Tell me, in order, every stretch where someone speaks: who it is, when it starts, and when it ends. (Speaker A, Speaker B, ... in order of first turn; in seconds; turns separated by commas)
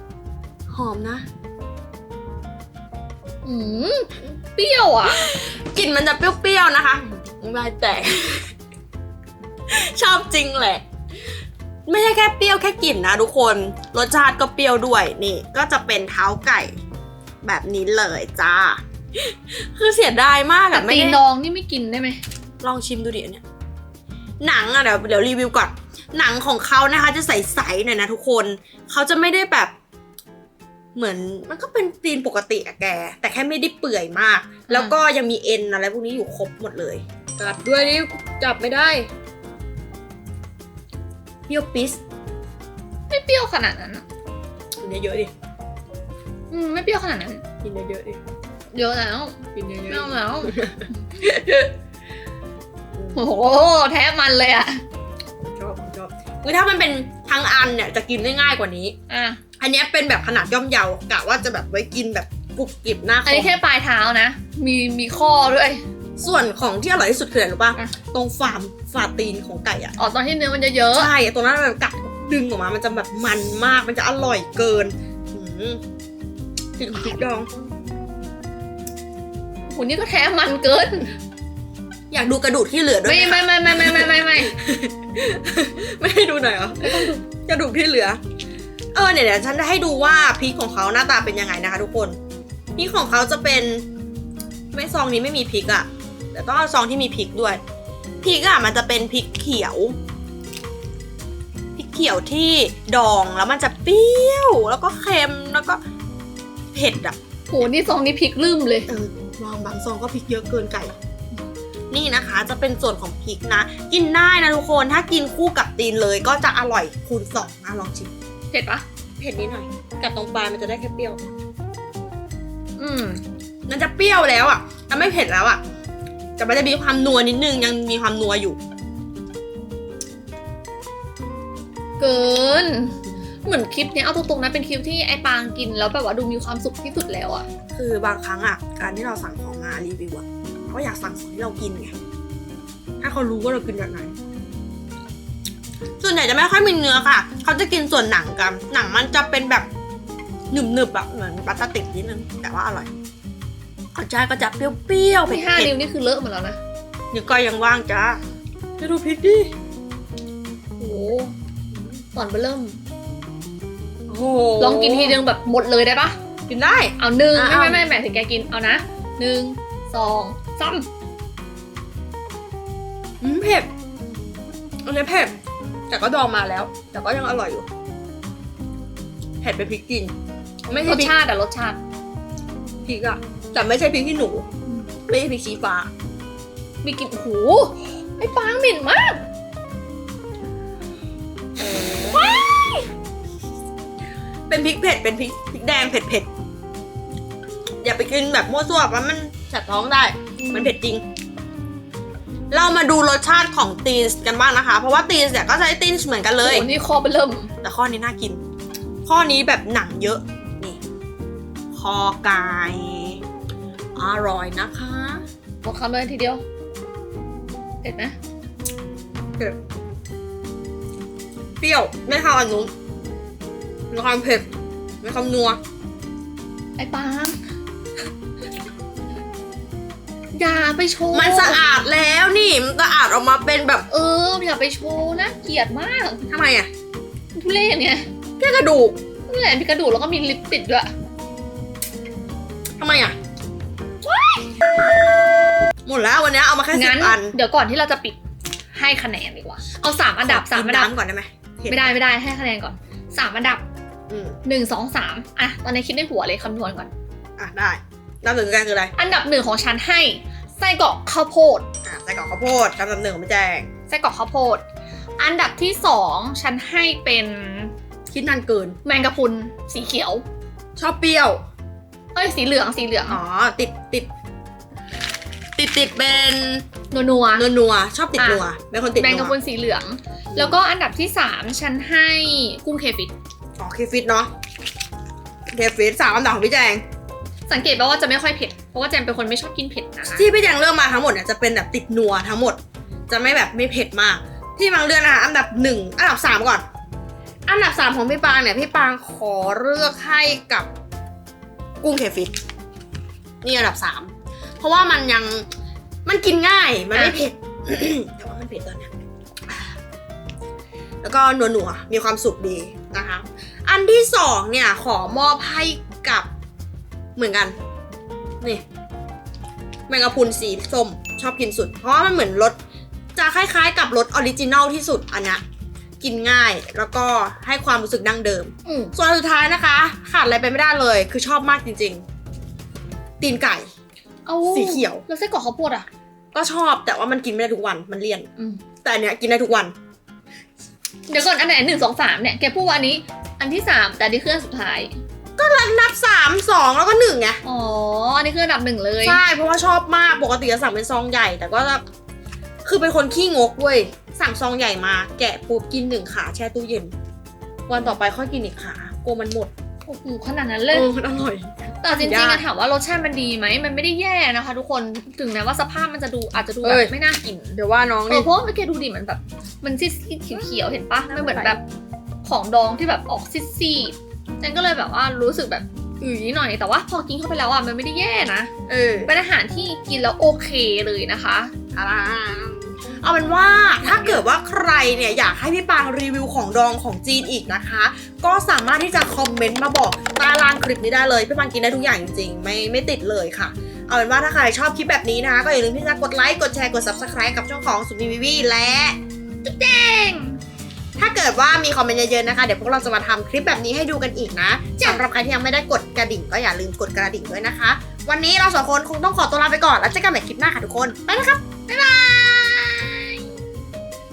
Speaker A: 0.7-1.2, Speaker B: 3.4-5.3, Speaker A: 5.0-8.5, Speaker A: 9.7-10.8, Speaker A: 11.9-16.8, Speaker A: 17.4-21.2, Speaker B: 20.7-22.2, Speaker A: 22.6-23.4, Speaker A: 24.4-29.7, Speaker A: 30.9-39.1, Speaker B: 34.7-35.0, Speaker A: 41.5-42.0, Speaker B: 43.1-44.1, Speaker A: 44.8-45.3, Speaker B: 46.5-47.4, Speaker A: 47.6-48.2, Speaker B: 48.7-51.7, Speaker A: 49.5-50.9, Speaker A: 52.9-53.2, Speaker B: 53.2-54.8, Speaker A: 55.5-59.0, Speaker B: 59.1-59.4, Speaker A: 59.6-63.6, Speaker B: 63.2-65.8, Speaker A: 66.2-70.0, Speaker B: 70.0-71.1, Speaker A: 70.9-75.8, Speaker A: 76.8-77.5, Speaker B: 79.7-81.1, Speaker A: 82.1-88.2, Speaker B: 83.0-84.5, Speaker B: 86.8-87.2, Speaker A: 88.9-92.2, Speaker A: 92.8-93.9, Speaker A: 94.7-97.6, Speaker A: 98.2-100.0, Speaker A: 101.8-105.8, Speaker A: 106.7-107.2, Speaker B: 107.5-108.9, Speaker A: 108.9-111.0, Speaker A: 111.9-118.1, Speaker B: 118.5-118.8, Speaker A: 119.2-121.2, Speaker B: 122.8-123.2, Speaker A: 123.7-125.6, Speaker A: 126.4-128.6, Speaker B: 132.0-137.5, Speaker A: 137.7-141.9, Speaker A: 143.0-144.1, Speaker A: 146.0-149.7, Speaker A: 150.5-152.9, Speaker A: 153.9-155.7, Speaker B: 155.2-156.6, Speaker A: 157.1-158.2, Speaker A: 158.8-159.5, Speaker B: 160.8-161.3, Speaker A: 161.7-162.0, Speaker B: 162.2-162.8, Speaker A: 164.1-165.2, Speaker B: 164.6-166.2, Speaker A: 166.5-167.9, Speaker B: 167.0-170.9, Speaker A: 173.2-173.7, Speaker A: 174.8-175.4, Speaker A: 175.9-177.7, Speaker A: 179.4-180.1, Speaker A: 180.7-181.2, Speaker B: 180.7-181.8, Speaker A: 182.8-184.5, Speaker A: 185.1-185.9, Speaker B: 186.8-189.2, Speaker A: 191.6-192.5, Speaker A: 194.5-196.3, Speaker A: 197.8-201.0, Speaker B: 200.4-200.7, Speaker A: 202.5-206.7, Speaker B: 206.4-207.5, Speaker A: 207.6-208.4, Speaker A: 209.1-210.8, Speaker A: 211.7-213.2, Speaker A: 214.0-215.2, Speaker B: 215.6-216.4, Speaker B: 217.8-218.2, Speaker A: 221.6-222.7, Speaker A: 223.9-224.5, Speaker A: 225.0-225.6, Speaker B: 226.8-227.4, Speaker B: 230.3-231.7, Speaker A: 231.1-233.9, Speaker B: 233.9-236.2, Speaker A: 236.3-236.7, Speaker B: 237.3-238.1, Speaker A: 238.4-239.0, Speaker B: 239.3-240.9, Speaker A: 242.8-243.2, Speaker B: 244.1-244.4, Speaker A: 245.8-247.3, Speaker B: 246.7-248.2, Speaker B: 248.7-250.9, Speaker A: 250.2-251.9, Speaker B: 251.7-253.7, Speaker A: 254.1-254.4, Speaker B: 254.4-256.9, Speaker A: 257.4-258.9, Speaker B: 259.0-261.7, Speaker A: 261.8-263.7, Speaker B: 263.9-264.6, Speaker B: 265.2-267.7, Speaker A: 268.1-268.8, Speaker B: 268.9-270.2, Speaker A: 270.8-271.4, Speaker B: 272.1-273.2, Speaker A: 273.1-274.1, Speaker A: 275.6-276.6, Speaker B: 276.9-277.5, Speaker A: 277.4-279.4, Speaker B: 278.2-278.4, Speaker B: 279.0-283.1, Speaker A: 283.6-284.3, Speaker A: 285.5-286.8, Speaker B: 287.5-290.3, Speaker A: 290.1-296.6, Speaker A: 297.5-300.7, Speaker A: 301.8-302.3, Speaker A: 303.4-305.5, Speaker A: 306.1-308.9, Speaker A: 311.0-316.3, Speaker A: 317.2-317.6, Speaker A: 319.9-322.6, Speaker A: 323.2-325.4, Speaker A: 326.0-332.1, Speaker B: 328.6-328.9, Speaker A: 333.2-333.7, Speaker B: 334.3-335.9, Speaker A: 334.4-335.0, Speaker A: 336.3-338.3, Speaker A: 338.8-339.7, Speaker B: 341.1-345.0, Speaker A: 345.4-347.4, Speaker B: 347.4-349.2, Speaker A: 349.0-351.8, Speaker A: 352.6-356.9, Speaker A: 357.7-359.5, Speaker B: 359.9-360.9, Speaker A: 360.7-362.4, Speaker B: 361.8-367.6, Speaker A: 366.6-366.9, Speaker A: 367.6-368.3, Speaker B: 368.1-371.6, Speaker A: 371.1-371.6, Speaker B: 372.2-378.5, Speaker A: 378.7-379.1, Speaker B: 379.1-381.5, Speaker A: 381.8-399.0, Speaker B: 383.8-384.2, Speaker B: 399.4-400.4, Speaker A: 401.0-411.5, Speaker B: 411.7-413.2